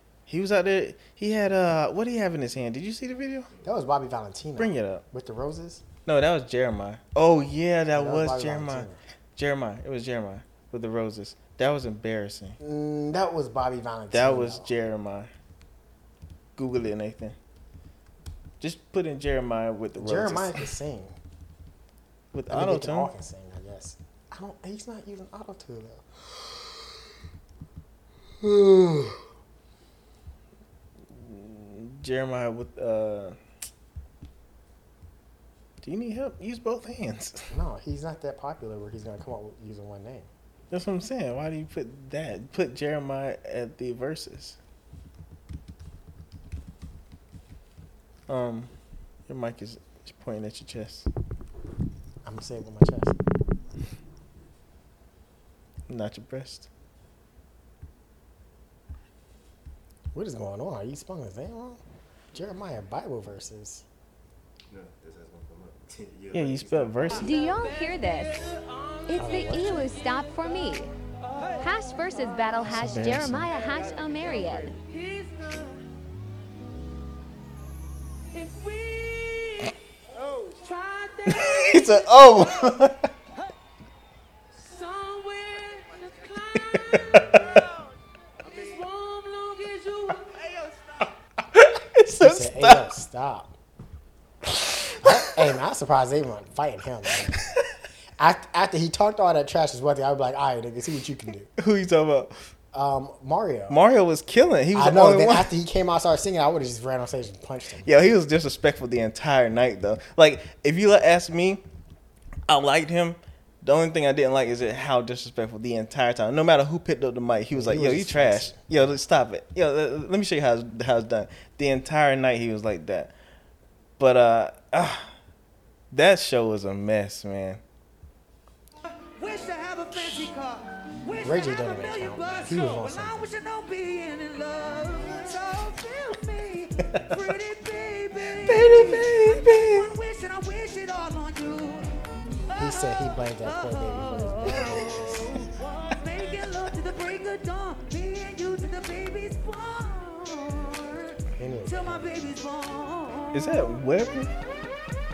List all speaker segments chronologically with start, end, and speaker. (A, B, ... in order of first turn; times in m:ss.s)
0:00.3-0:03.5 A
0:03.6-0:05.8 B
0:04.6-0:05.0 A
0:06.0-0:12.6 A
0:07.9-0:09.0 B
0:12.6-0:14.7 B
0:14.1-0:15.3 A
0:16.6-0:17.4 A
0:18.6-0:20.7 A
0:20.0-0:21.2 B
0:22.3-0:23.1 A
0:22.5-0:26.7 B
0:28.4-0:29.2 B
0:31.1-0:33.4 A
0:35.8-0:37.5 A
0:37.5-0:40.3 B
0:40.7-0:44.6 A
0:48.3-0:48.7 A
0:49.3-0:51.1 A
0:52.2-0:53.2 B
0:55.9-0:56.7 A
1:00.1-1:01.8 B
1:02.3-1:03.8 B
1:04.7-1:07.4 C
1:06.3-1:07.3 A
1:07.1-1:08.5 D
1:09.1-1:10.9 D
1:09.1-1:09.9 B
1:11.6-1:14.8 D
1:12.6-1:13.5 A
1:14.9-1:15.7 E
1:18.3-1:19.7 E
1:20.2-1:22.7 E
1:21.3-1:23.1 A
1:24.5-1:27.9 E
1:26.9-1:27.4 A
1:28.4-1:30.4 E
1:31.5-1:32.9 A
1:32.1-1:33.5 B
1:35.0-1:37.4 B
1:37.3-1:37.6 A
1:38.2-1:41.5 B
1:41.6-1:42.5 A
1:42.7-1:43.8 B
1:43.7-1:45.5 A
1:44.7-1:47.9 B
1:47.8-1:51.6 A
1:52.5-2:03.1 A
1:57.5-1:58.6 B
2:04.0-2:05.1 A
2:05.9-2:07.6 A
2:09.0-2:33.7 E
2:11.2-2:13.3 B
2:18.3-2:19.9 A
2:22.5-2:25.4 B
2:31.4-2:32.3 B
2:33.3-2:34.3 A